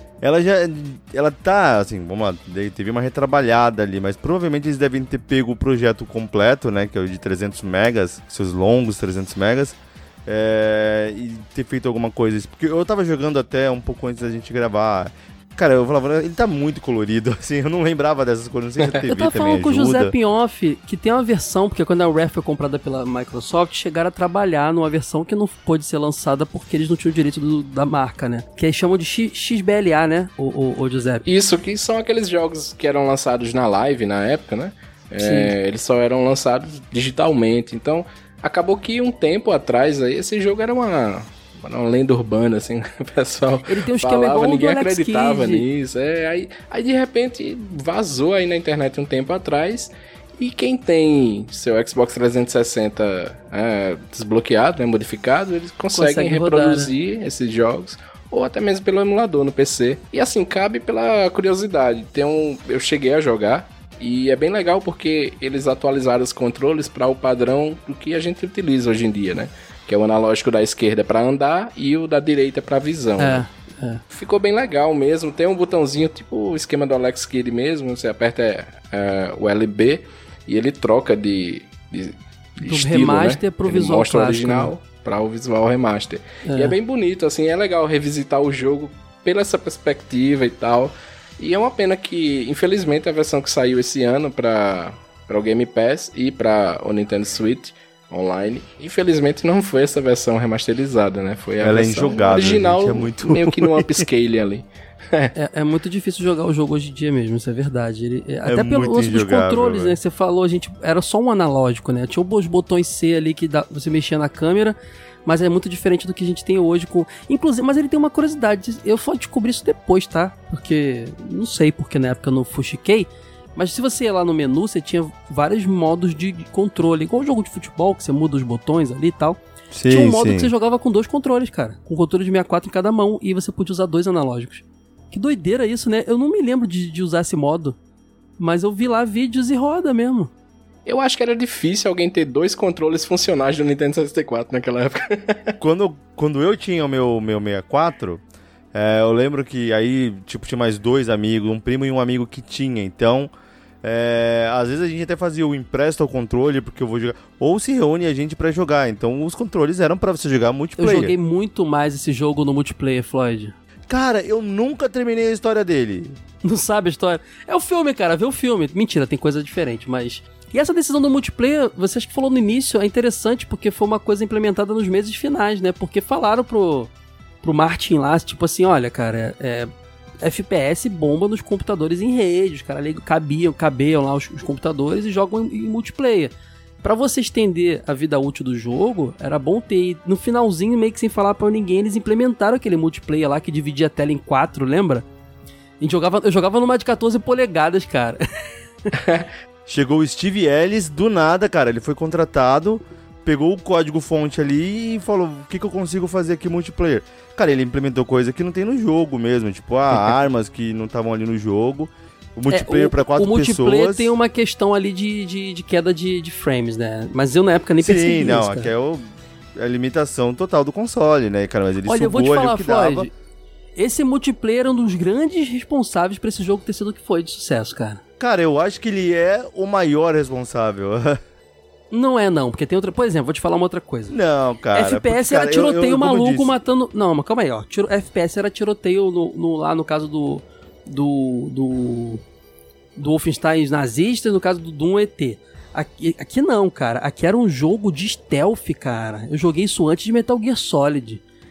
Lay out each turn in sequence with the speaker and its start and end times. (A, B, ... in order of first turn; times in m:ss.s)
0:00.2-0:20.1 A
0:19.1-0:31.3 B
0:31.3-1:13.4 C
0:35.2-0:35.5 B
0:43.7-0:45.6 B
0:55.9-0:56.9 B
1:13.2-1:14.0 B
1:14.1-1:45.3 C
1:22.6-1:24.7 B
1:26.5-1:26.8 B
1:41.6-1:44.1 A
1:45.4-2:17.8 B
1:48.5-1:50.0 A
2:09.7-2:10.5 A
2:18.4-2:20.3 B
2:20.9-2:25.5 C
2:25.6-2:28.2 A
2:28.7-2:33.3 A
2:33.8-2:41.1 A
2:40.8-2:43.6 B
2:43.9-2:46.2 A
2:46.4-2:56.9 B
2:57.4-2:59.7 B
3:00.2-3:06.3 B
3:06.8-3:15.1 B
3:15.8-3:18.2 B
3:19.0-3:19.3 C
3:19.7-3:34.1 A
3:32.5-3:38.7 B
3:37.8-3:43.1 A
3:41.9-3:43.1 B
3:43.8-3:48.0 B
3:48.2-3:51.2 A
3:51.9-3:54.2 B
3:54.1-3:56.5 A
3:54.7-4:02.2 B
4:03.0-4:11.2 B